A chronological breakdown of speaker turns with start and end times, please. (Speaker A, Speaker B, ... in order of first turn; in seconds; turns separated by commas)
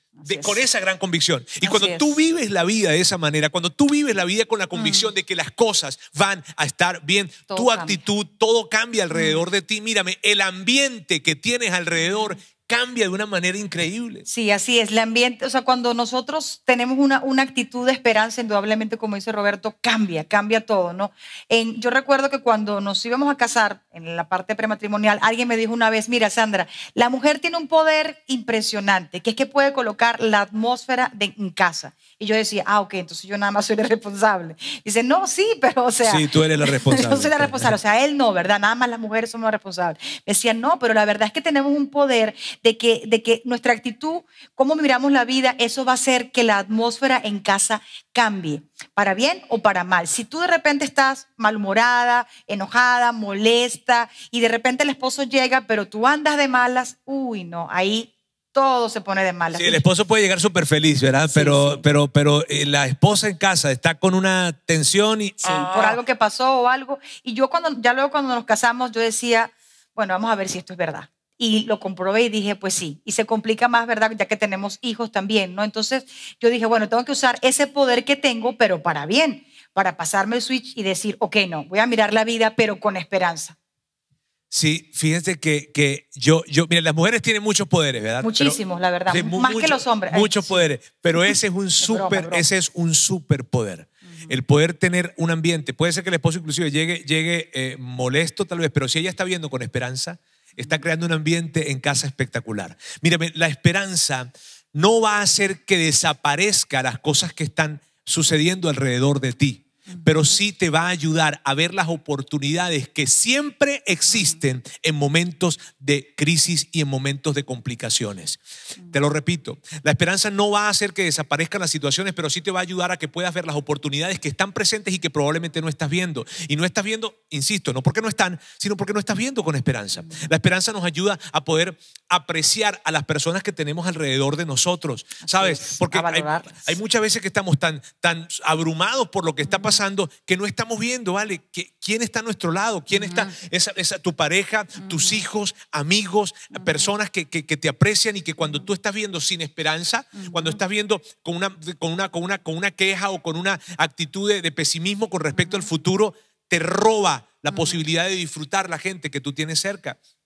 Speaker A: 0.2-0.6, Speaker B: 0.2-14.3, Speaker A: 1.6-2.1, Speaker A: 7.5-8.0, Speaker A: 14.3-59.8, Speaker B: 36.0-37.8, Speaker B: 59.5-66.0, Speaker A: 61.3-61.8, Speaker A: 65.4-83.6, Speaker B: 84.5-88.6, Speaker A: 88.2-90.7, Speaker B: 89.1-160.0, Speaker A: 91.8-92.5, Speaker A: 135.2-136.7